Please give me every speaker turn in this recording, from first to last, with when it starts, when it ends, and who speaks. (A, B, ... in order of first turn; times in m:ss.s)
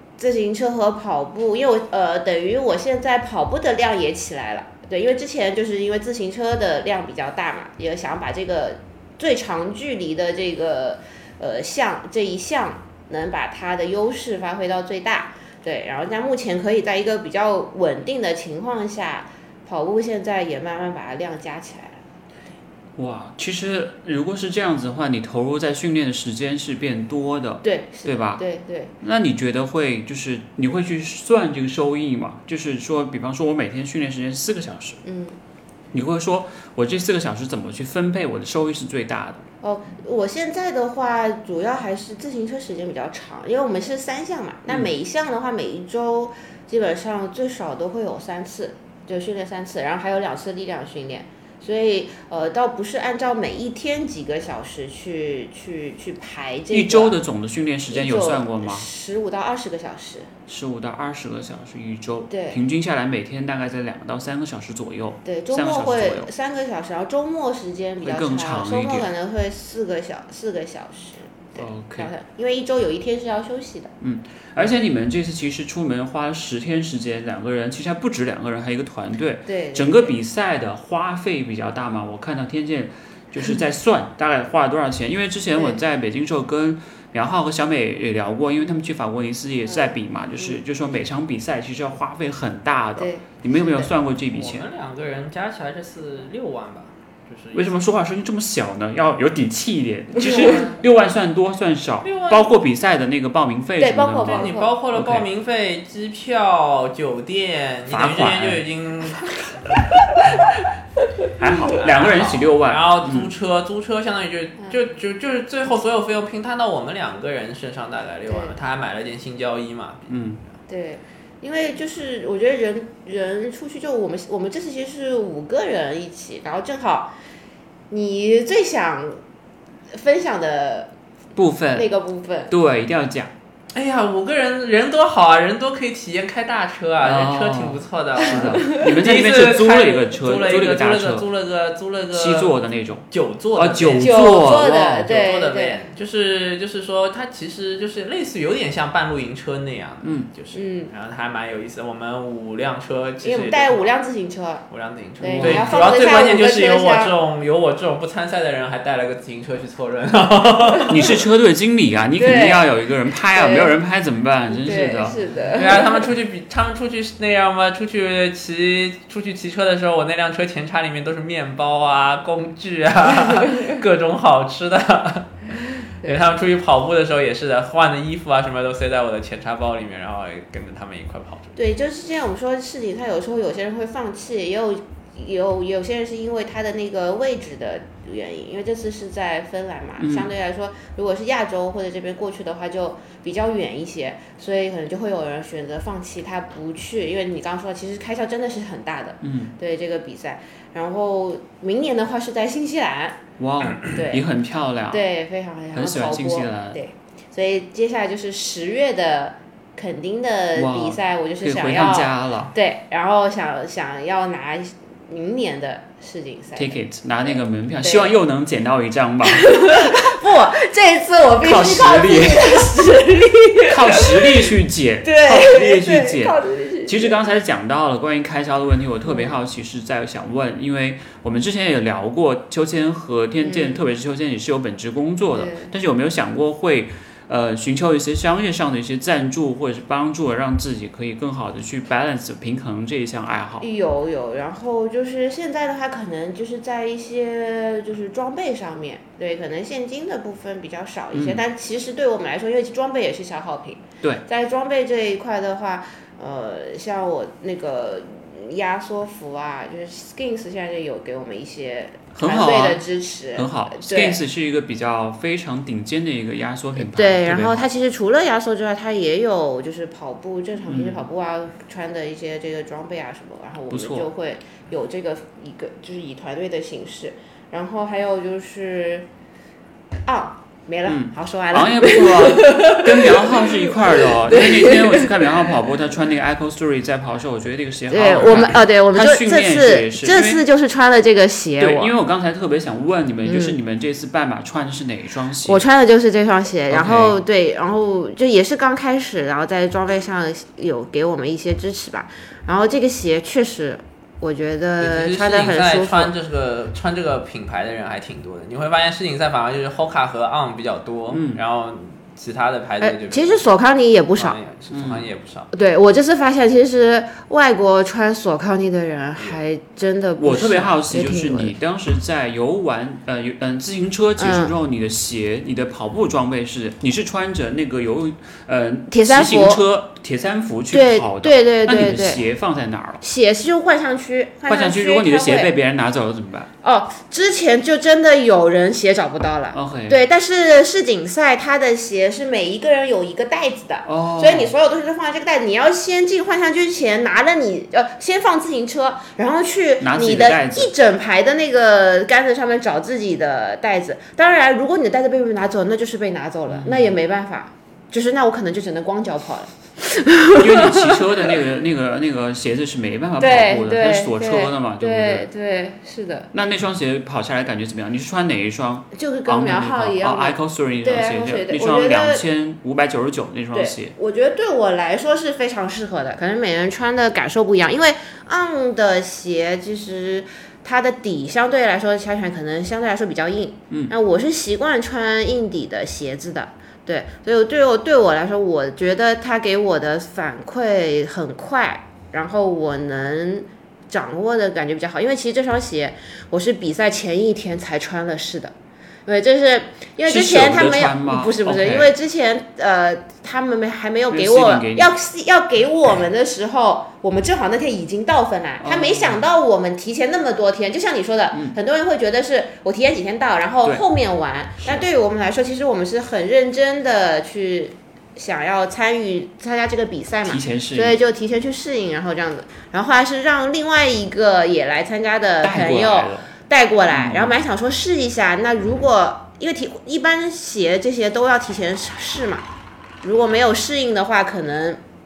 0:00.2-0:22.0 A
0:23.0-0:28.4 B
0:27.6-0:28.9 A
0:29.0-0:35.0 B
0:35.0-0:35.3 A
0:35.9-0:39.4 B
0:39.6-0:57.2 A
0:56.7-0:58.8 B
0:57.9-1:00.3 A
1:00.5-1:06.3 B
1:02.3-1:02.6 A
1:05.2-1:13.9 A
1:08.0-1:09.1 B
1:11.6-1:12.1 B
1:14.0-1:34.7 B
1:19.5-1:20.1 A
1:25.6-1:25.8 A
1:29.7-1:30.0 A
1:33.0-1:33.9 A
1:34.3-1:37.7 C
1:37.5-1:45.2 B
1:40.3-1:40.7 A
1:42.0-1:42.5 C
1:43.8-1:44.7 A
1:44.2-1:49.8 C
1:47.9-1:48.6 B
1:51.4-1:53.3 B
1:51.5-2:00.1 C
1:58.3-1:58.6 A
2:00.1-2:00.4 B
2:00.7-2:07.1 A
2:07.9-2:09.2 A
2:09.9-2:10.9 A
2:11.4-2:11.9 B
2:11.7-2:12.5 A
2:12.5-2:13.3 B
2:13.7-2:22.6 C
2:17.0-2:21.2 B
2:18.5-2:18.8 A
2:22.1-2:25.1 B
2:23.1-2:33.9 C
2:24.0-2:25.8 A
2:30.0-2:30.3 B
2:30.5-2:30.9 A
2:33.2-2:34.6 A
2:34.7-2:41.1 C
2:35.2-2:37.1 A
2:35.3-2:35.9 B
2:40.9-2:45.2 B
2:42.2-2:42.7 A
2:43.3-2:43.7 A
2:44.5-2:46.1 A
2:45.5-3:01.5 C
3:01.6-3:23.2 A
3:10.0-3:10.3 B
3:19.2-3:19.5 B
3:23.4-3:25.0 B
3:23.9-3:24.2 A
3:24.9-3:36.8 A
3:25.7-3:26.8 B
3:30.6-3:32.5 B
3:36.6-3:40.0 B
3:37.8-3:38.1 A
3:39.2-3:44.5 A
3:41.4-3:42.7 B
3:43.7-4:03.6 B
3:45.0-3:47.2 A
3:49.1-3:49.3 A
3:53.4-3:53.8 A
3:55.3-3:55.7 A
4:03.6-4:24.2 A
4:11.1-4:11.4 B
4:22.1-4:22.8 B
4:23.4-4:27.7 B
4:26.8-4:39.1 A
4:30.7-4:31.0 B
4:33.7-4:34.1 B
4:40.0-4:45.3 A
4:40.8-4:50.4 B
4:47.9-4:51.9 A
4:51.6-4:55.6 B
4:53.2-4:53.6 A
4:55.4-5:06.1 A
4:56.7-4:57.2 B
5:04.8-5:13.5 C
5:11.1-5:11.4 B
5:12.8-5:14.4 A
5:14.2-5:15.5 C
5:14.7-5:15.1 B
5:15.5-5:21.5 A
5:20.2-5:33.0 B
5:24.2-5:24.5 A
5:28.9-5:29.6 A
5:30.7-5:32.2 A
5:33.0-5:35.5 A
5:34.5-5:36.5 B
5:36.6-6:01.3 A
5:39.5-5:40.0 B
5:43.8-5:44.5 B
5:49.8-5:50.7 B
5:56.5-5:56.9 B
6:00.4-6:05.3 B
6:03.2-6:06.3 A
6:06.3-6:13.9 B
6:08.9-6:12.2 A
6:13.5-6:38.5 A
6:39.0-7:12.4 A
6:40.0-6:41.9 B
6:44.1-6:44.9 B
6:48.6-6:49.2 B
7:00.3-7:01.0 B
7:05.4-7:06.3 B
7:06.9-7:07.4 B
7:13.0-7:14.8 A